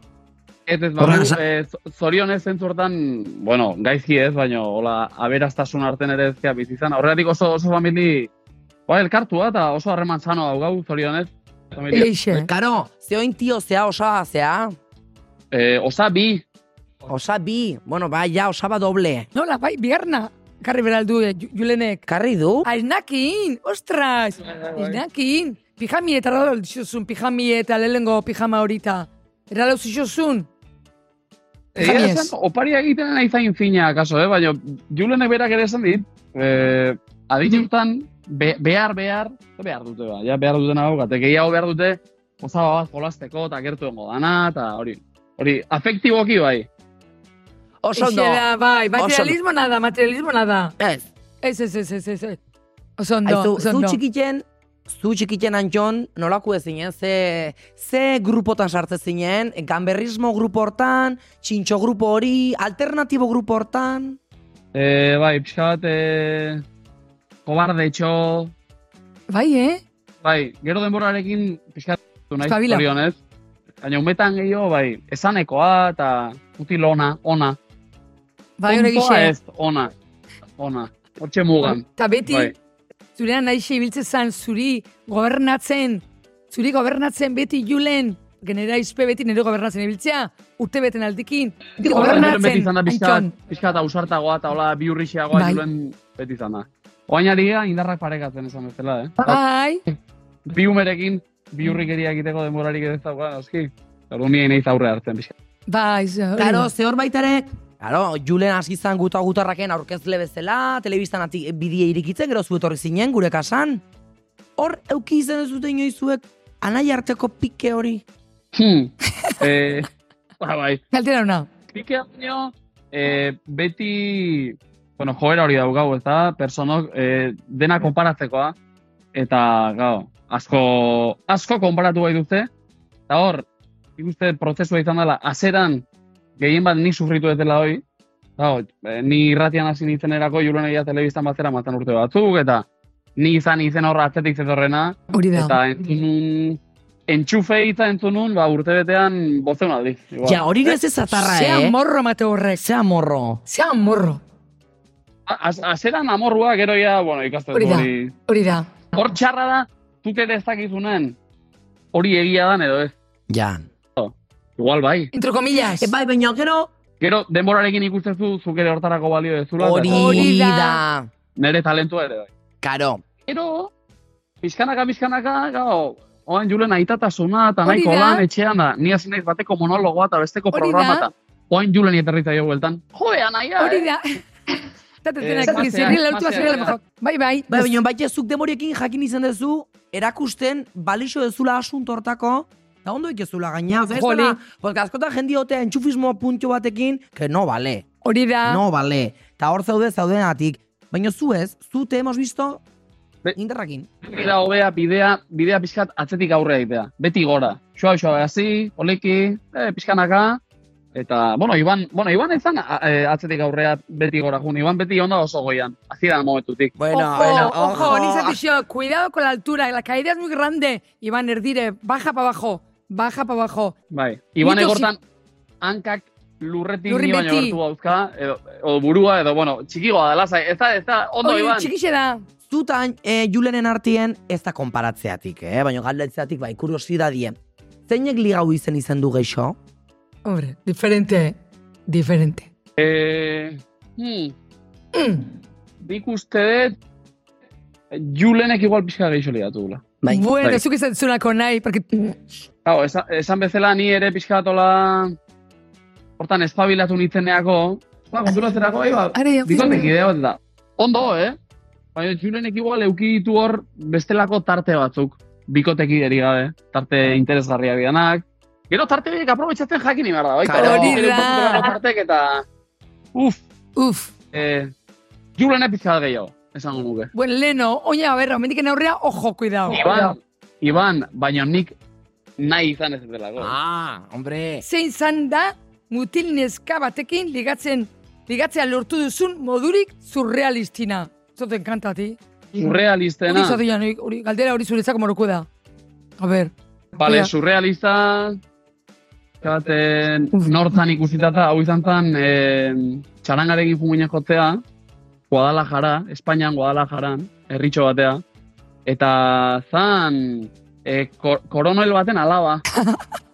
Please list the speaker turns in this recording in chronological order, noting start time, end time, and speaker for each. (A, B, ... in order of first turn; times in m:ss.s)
0:00.7-0:08.3 A
0:01.0-0:01.4 B
0:08.9-0:12.1 A
0:11.9-0:12.5 C
0:12.3-0:14.7 B
0:15.5-0:16.4 A
0:17.1-0:19.3 B
0:19.3-0:22.0 C
0:22.1-0:22.7 B
0:22.6-0:30.5 C
0:24.4-0:25.0 A
0:31.7-0:46.7 A
0:31.8-0:32.3 C
0:47.8-0:48.4 B
0:47.9-0:50.7 C
0:49.0-0:49.4 B
0:50.8-0:51.1 B
0:51.4-0:52.4 C
0:53.0-0:54.0 C
0:53.2-1:04.2 B
1:04.7-1:06.6 A
1:07.4-1:08.5 A
1:09.3-1:09.8 C
1:10.2-1:13.2 A
1:12.4-1:12.8 C
1:13.8-1:17.6 A
1:18.6-1:19.3 C
1:18.7-1:19.9 A
1:20.6-1:22.5 A
1:21.7-1:22.5 C
1:23.2-1:33.3 C
1:31.8-1:39.4 A
1:35.3-1:35.6 C
1:39.2-1:39.8 C
1:40.4-1:45.3 A
1:45.7-1:46.7 C
1:46.4-1:53.8 B
1:54.6-1:58.0 B
1:58.5-1:59.9 A
2:00.4-2:00.8 A
2:00.9-2:01.5 C
2:01.7-2:08.5 A
2:09.1-2:12.5 A
2:13.1-2:13.4 A
2:14.0-2:15.8 A
2:16.4-2:17.8 A
2:18.4-2:22.6 A
2:23.2-2:30.7 A
2:25.1-2:25.6 C
2:30.2-2:31.8 B
2:31.1-2:32.6 C
2:32.6-2:33.4 B
2:33.4-2:34.2 C
2:35.3-2:38.1 A
2:37.5-2:38.7 C
2:38.9-2:41.2 A
2:41.9-2:42.9 A
2:43.3-2:43.6 B
2:44.0-2:45.1 A
2:45.1-2:45.9 C
2:45.8-2:46.7 B
2:47.0-2:50.3 A
2:49.6-2:51.1 B
2:49.9-2:50.8 C
2:51.4-2:52.3 A
2:52.6-2:53.0 B
2:53.3-2:53.7 A
2:54.4-3:03.9 A
2:57.6-2:58.2 C
3:00.5-3:01.1 C
3:03.6-3:07.7 C
3:05.2-3:06.8 A
3:07.5-3:17.8 B
3:13.9-3:14.4 C
3:18.0-3:18.6 C
3:18.4-3:22.6 B
3:23.4-3:23.9 B
3:24.0-3:30.4 A
3:30.9-3:37.9 A
3:36.8-3:38.4 B
3:36.9-3:43.7 C
3:43.9-3:45.0 A
3:44.4-3:44.9 C
3:45.6-3:51.7 A
3:46.9-3:47.6 C
3:51.2-3:52.2 C
3:52.5-3:57.4 B
3:57.9-3:59.6 B
4:00.2-4:02.5 C
4:02.8-4:04.3 A
4:04.9-4:05.3 C
4:05.8-4:06.8 A
4:07.9-4:09.9 A
4:10.0-4:10.3 B
4:10.1-4:12.2 C
4:12.6-4:15.1 A
4:16.2-4:21.4 A
4:19.1-4:19.9 C
4:21.9-4:32.4 A
4:30.4-4:31.0 B
4:30.5-4:31.7 C
4:33.1-4:33.4 A
4:33.8-4:34.1 C
4:34.3-4:34.7 A
4:35.4-4:37.1 A
4:37.1-4:39.8 C
4:39.7-4:41.7 A
4:42.4-4:43.5 A
4:43.4-4:44.6 B
4:44.6-4:52.7 C
4:52.6-4:53.6 A
4:53.3-4:55.5 C
4:56.2-4:56.5 C
4:57.0-4:58.4 A
4:57.0-4:57.3 C
4:59.4-5:04.6 A
5:05.3-5:08.2 A
5:08.9-5:12.6 A
5:12.7-5:13.0 C